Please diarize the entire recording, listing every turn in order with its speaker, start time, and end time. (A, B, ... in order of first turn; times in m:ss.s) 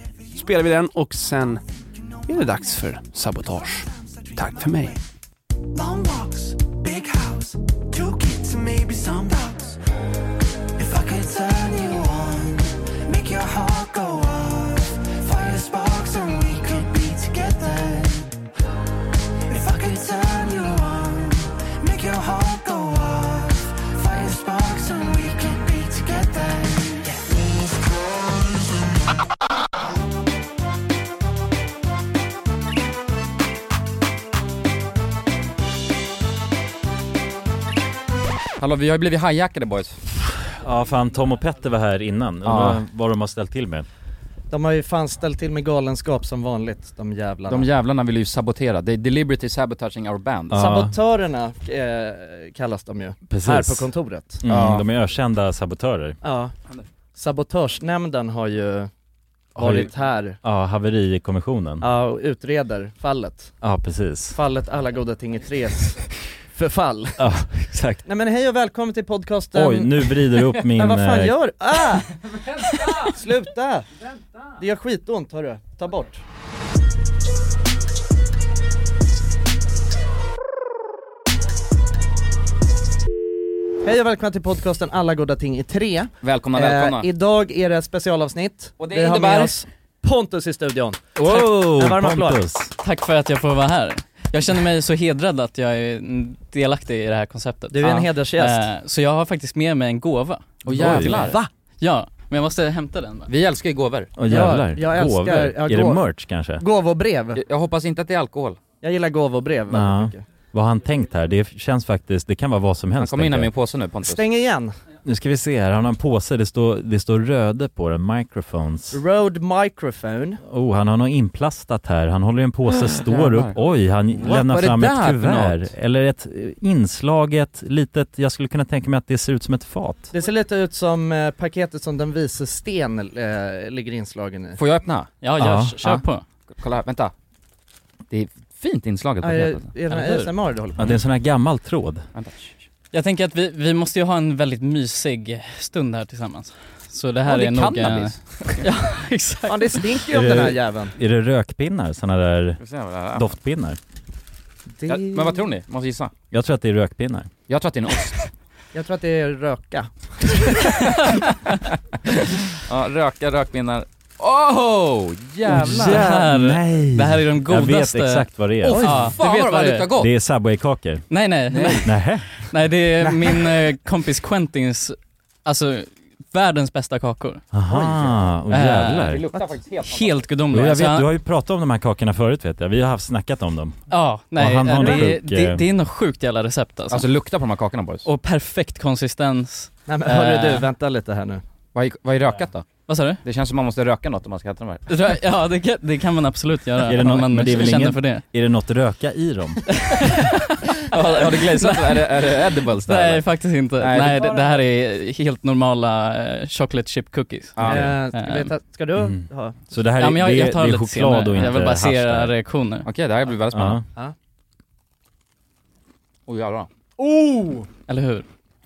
0:00.3-0:01.6 A
0:02.3-0:05.0 A
0:05.7-0:09.8 B
0:10.8-0:18.3 B
0:19.5-0:28.7 B
0:38.6-0:40.0 C
0:40.5-0:43.9 D
0:42.4-0:42.8 C
0:44.5-0:47.7 E
0:47.5-0:50.6 C
0:50.5-0:50.9 D
0:50.5-0:54.4 E
0:53.3-0:53.9 D
0:54.4-0:56.2 D
0:54.5-0:54.8 C
0:56.2-0:56.5 E
0:57.1-0:58.9 E
0:59.5-1:00.4 E
0:59.6-0:59.9 D
1:00.4-1:01.9 D
1:01.8-1:03.5 E
1:03.6-1:04.4 D
1:04.3-1:07.2 E
1:07.2-1:08.0 D
1:08.0-1:10.1 E
1:09.5-1:11.4 D
1:10.7-1:12.1 E
1:12.8-1:13.8 E
1:14.6-1:16.2 E
1:23.8-1:32.4 E
1:26.2-1:27.1 C
1:28.8-1:29.5 C
1:31.2-1:32.7 D
1:32.8-1:43.3 F
1:37.7-1:38.6 E
1:40.6-1:41.3 D
1:40.6-1:41.4 C
1:43.3-1:44.1 C
1:44.2-1:46.6 D
1:44.2-1:46.0 E
1:46.6-1:47.4 E
1:47.3-1:48.6 C
1:48.8-1:50.2 E
1:49.7-1:53.5 D
1:53.0-1:54.2 C
1:54.0-1:54.7 E
1:55.0-1:59.0 D
1:58.9-2:00.4 E
2:00.4-2:10.1 D
2:04.2-2:05.6 C
2:10.1-2:14.6 E
2:14.6-2:15.1 C
2:15.2-2:16.2 F
2:15.4-2:15.8 D
2:16.6-2:17.1 C
2:18.1-2:20.1 C
2:19.2-2:20.8 E
2:19.9-2:20.2 F
2:20.8-2:22.1 D
2:22.1-2:22.6 C
2:22.9-2:29.8 F
2:27.2-2:28.6 C
2:29.5-2:30.9 E
2:30.1-2:32.6 D
2:32.6-2:33.3 C
2:33.1-2:33.8 D
2:34.8-2:35.4 E
2:34.9-2:36.1 C
2:36.3-2:37.3 D
2:37.5-2:38.2 C
2:38.7-2:40.8 E
2:42.6-2:46.0 C
2:45.5-2:48.8 D
2:45.6-2:49.9 F
2:48.6-2:50.1 C
2:48.8-2:49.1 E
2:50.0-2:51.1 D
2:51.1-2:57.4 F
2:51.5-2:51.9 C
2:51.8-2:52.4 D
2:57.5-2:59.3 D
2:58.5-3:01.0 F
2:59.1-3:00.2 C
3:00.5-3:03.8 D
3:03.9-3:07.0 F
3:04.4-3:05.6 D
3:06.9-3:08.0 C
3:08.0-3:10.6 F
3:09.9-3:11.4 E
3:11.7-3:12.7 C
3:12.9-3:13.2 F
3:13.2-3:14.8 C
3:14.9-3:18.2 F
3:16.8-3:19.7 D
3:19.8-3:20.4 F
3:20.9-3:23.2 C
3:21.5-3:28.5 F
3:23.8-3:24.3 C
3:27.6-3:28.0 C
3:27.6-3:29.6 E
3:28.9-3:32.3 D
3:30.0-3:32.8 F
3:32.8-3:33.8 C
3:33.5-3:33.8 D
3:36.3-3:36.7 C
3:37.0-3:37.7 E
3:37.9-3:38.2 F